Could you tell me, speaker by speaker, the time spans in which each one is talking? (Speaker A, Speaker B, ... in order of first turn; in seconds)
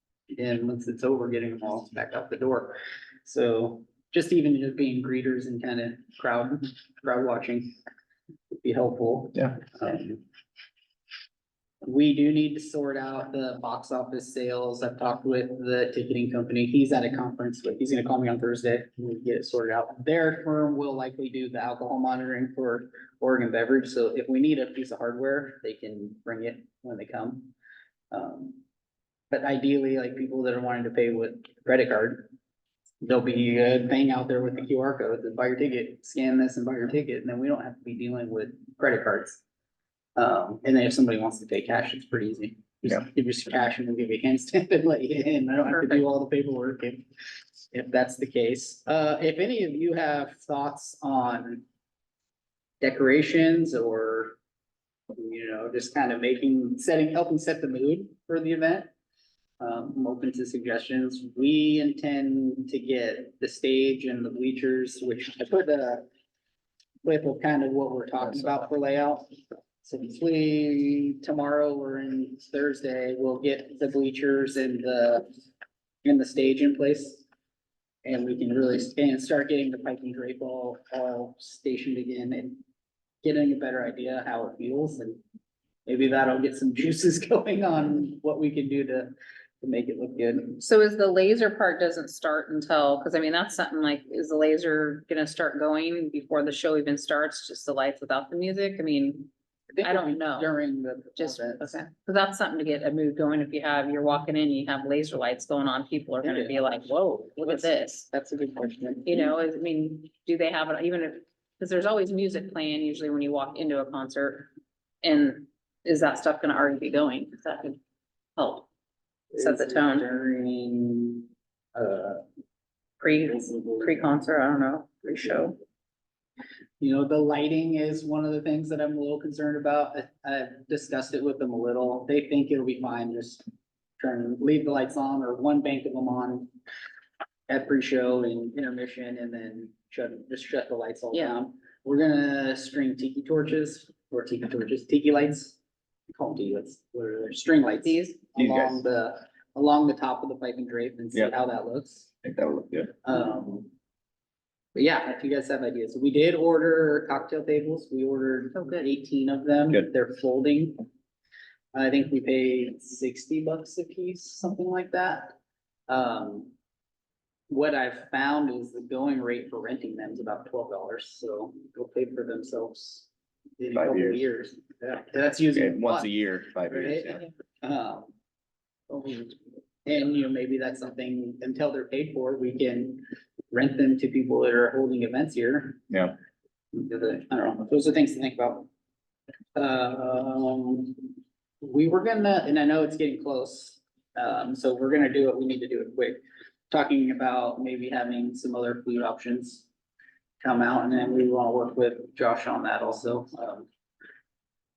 Speaker A: 0.3-7.7, 8.5-10.2, 11.8-27.5, 28.1-28.6, 29.3-32.3, 33.0-39.4, 40.1-47.0, 47.7-51.6, 52.8-54.4, 55.1-58.9, 59.6-66.1, 67.0-69.3, 69.8-75.2, 76.0-77.2, 78.0-82.6, 83.2-85.2, 85.8-90.6, 99.7-101.8, 106.2-109.2, 119.3-122.2, 123.2-124.0, 126.8-133.4, 134.0-136.5, 137.5-145.6, 146.1-152.1, 153.0-153.7, 154.7-160.8, 161.7-165.4, 165.9-166.5, 167.5-173.1, 173.6-176.1, 176.7-178.1, 178.9-185.8, 186.7-188.7, 189.6-191.0, 191.6-199.7, 200.4-203.7
Speaker B: 45.7-46.0, 90.6-99.3, 99.8-100.5, 101.2-108.1, 109.0-114.5, 115.0-117.8, 118.4-118.7, 119.4-120.0, 123.0-125.6, 147.8-148.2, 158.5-158.8
Speaker C: 148.3-148.8, 152.2-152.9, 173.7-174.2, 175.5-177.3